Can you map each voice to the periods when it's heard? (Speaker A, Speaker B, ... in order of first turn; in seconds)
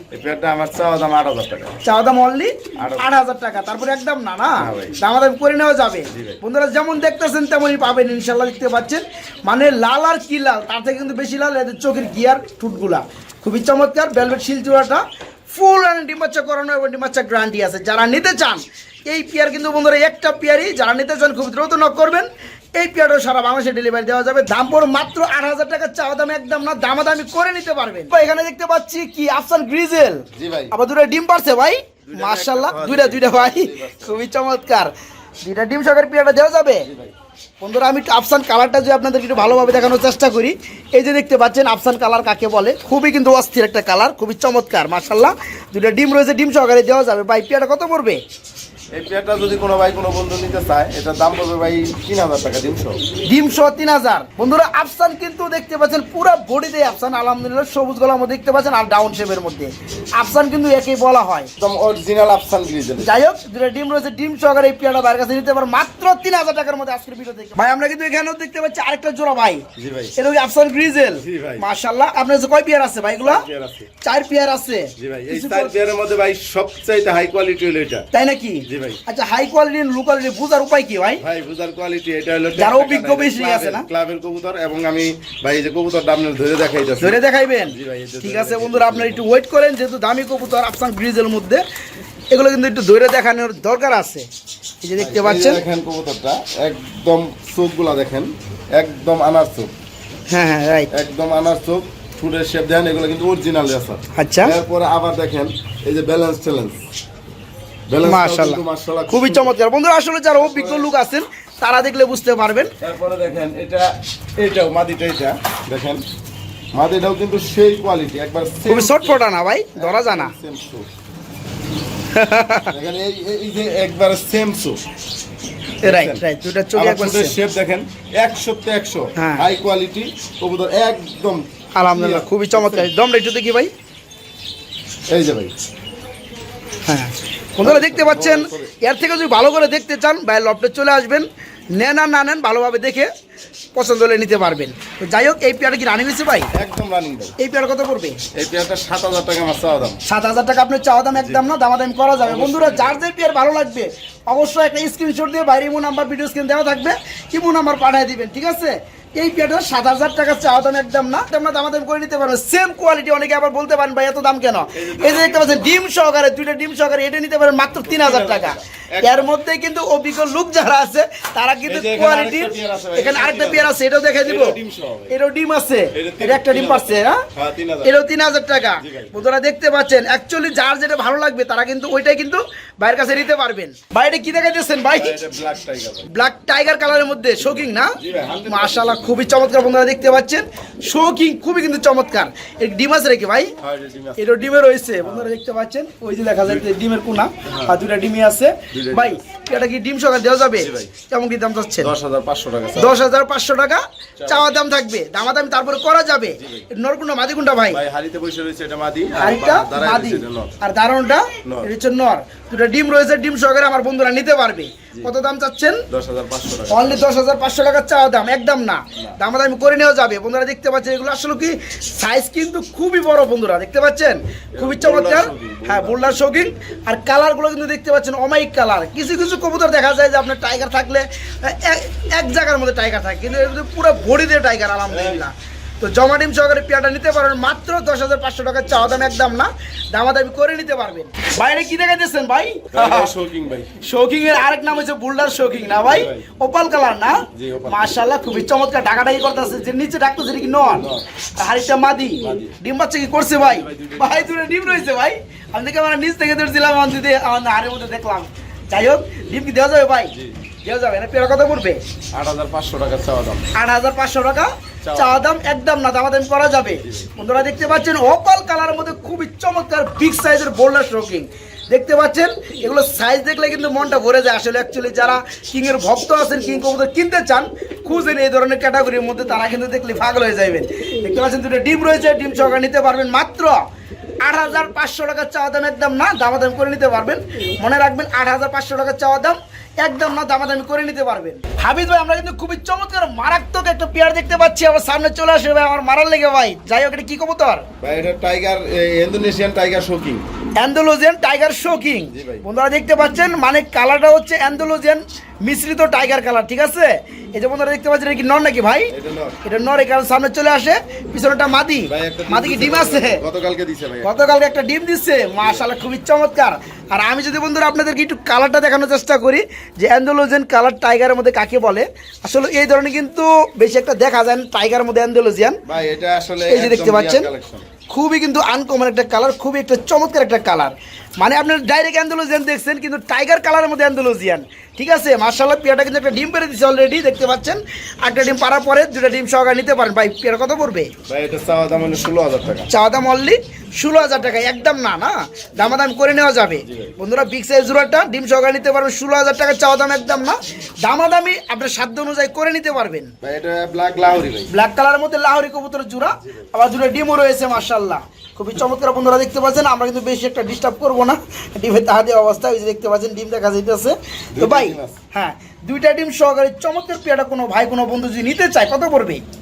Speaker A: 0.1-1.8, 2.8-3.1, 4.6-5.0, 6.1-6.4, 30.3-30.7, 32.1-34.2, 36.8-37.1, 39.4-39.9, 48.9-53.0, 61.6-63.1, 69.8-70.1, 71.2-71.6, 73.2-73.9, 75.0-78.1, 78.7-79.0, 81.2-89.2, 95.0-99.7, 100.9-106.8, 107.9-109.5, 110.3-110.9, 112.8-116.0, 116.7-119.2, 119.7-120.9, 122.7-124.8, 125.8-126.2, 126.8-132.9, 135.1-135.5, 137.6-138.7, 146.5-147.3, 148.3-150.0, 151.2-151.4, 152.2-153.1, 164.7-165.7, 167.7-169.3, 171.7-175.1, 175.9-177.9, 178.8-179.2, 184.9-186.1, 187.4-189.5, 193.6-194.2, 195.0-195.3, 197.4-197.8, 198.7-199.2, 200.6-200.9, 201.8-203.0, 204.2-204.5, 206.4-206.6, 207.7-210.5, 211.4-211.7, 215.9-217.0, 224.5-226.3, 234.9-235.2, 242.7-243.7, 245.8-246.2, 247.3-247.9, 250.8-251.0, 252.2-252.6, 253.3-254.5, 262.1-263.5, 264.8-265.2, 266.8-267.1, 297.8-300.2, 302.1-302.4, 308.9-309.4, 311.9-314.1, 315.4-315.7, 325.6-327.7, 341.1-342.7, 346.7-346.9, 353.2-354.5, 364.3-365.0
Speaker B: 1.8-36.9, 37.6-48.2, 53.2-61.5, 63.0-73.4, 74.0-75.7, 78.1-81.2, 82.6-83.9, 87.0-91.6, 92.3-94.3, 94.8-95.6, 100.3-100.9, 104.1-104.5, 108.0-112.7, 118.7-120.3, 122.1-122.7, 125.8-127.3, 129.2-129.4, 131.7-133.7, 136.8-143.1, 143.7-146.5, 147.4-148.2, 150.0-174.6, 175.1-177.2, 177.8-185.2, 186.1-193.5, 194.2-201.9, 202.8-207.8, 209.2-215.8, 216.7-243.1, 243.8-260.1, 260.6-261.8, 263.5-283.6, 284.2-297.6, 300.6-313.2, 314.0-325.6, 326.5-327.3, 327.9-340.9, 342.7-353.1, 354.5-369.2